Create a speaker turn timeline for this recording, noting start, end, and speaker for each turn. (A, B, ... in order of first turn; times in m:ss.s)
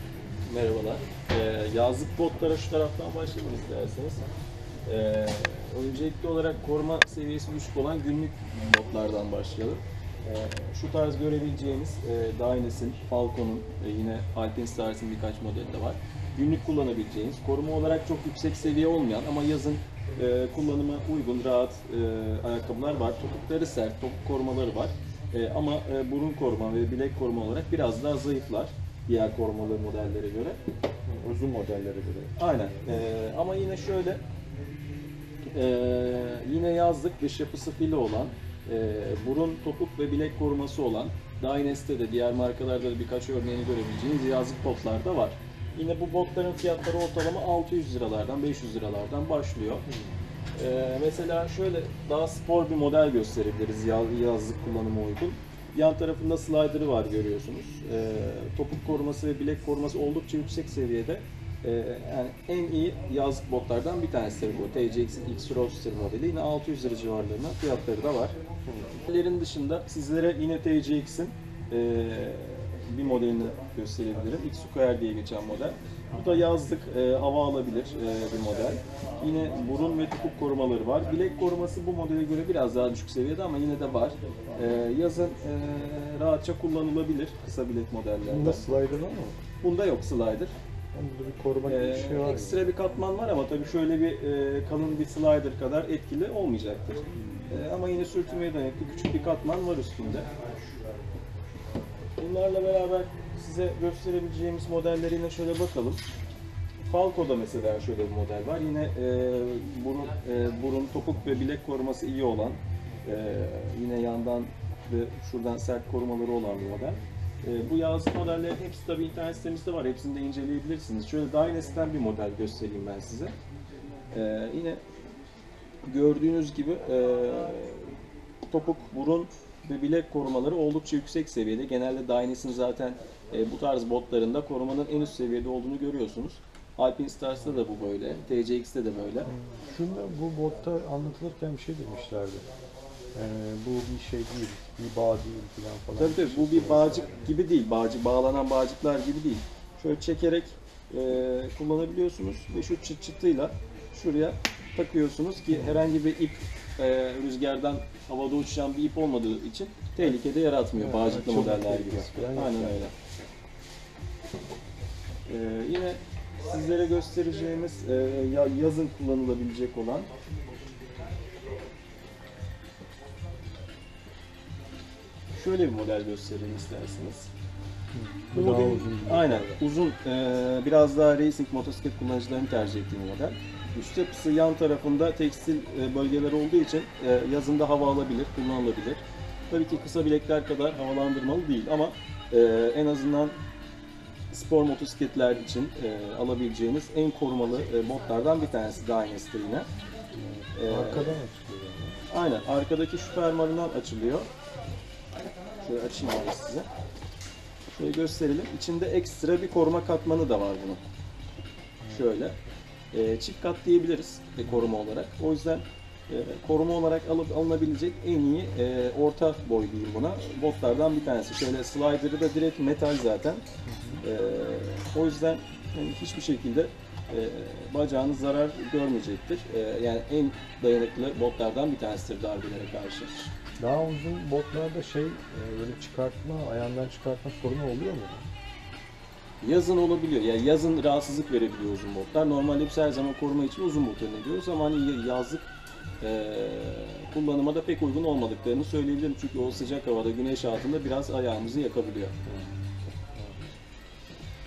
0:00.4-0:04.2 A
0:04.9-0:30.6 A
0:31.1-0:33.0 B
0:32.4-0:34.2 A
0:35.5-0:49.8 A
0:49.9-0:50.1 B
0:50.5-1:08.4 A
1:08.9-1:28.6 A
1:28.3-1:29.4 B
1:29.6-1:30.5 A
1:30.9-1:32.6 B
1:31.7-1:40.3 A
1:37.2-1:37.4 B
1:42.2-1:46.0 A
1:46.8-2:03.3 A
2:04.1-2:04.8 A
2:05.8-2:07.9 A
2:08.5-2:19.3 A
2:19.2-2:22.5 B
2:23.1-2:27.3 B
2:26.0-2:42.9 A
2:35.5-2:35.8 B
2:40.7-2:42.9 B
2:45.3-2:50.1 A
2:55.3-2:57.3 A
2:57.9-2:59.6 B
2:58.3-3:13.4 A
3:14.3-3:19.7 A
3:20.1-3:22.0 B
3:20.5-3:21.2 A
3:22.1-3:24.3 A
3:25.6-3:26.7 A
3:27.7-3:30.8 A
3:31.8-3:32.1 B
3:31.9-3:32.4 A
3:32.9-3:43.4 A
3:34.4-3:34.7 B
3:43.6-3:44.0 B
3:44.0-3:53.2 A
3:53.6-3:58.3 B
3:59.4-4:12.1 A
4:12.2-4:13.5 B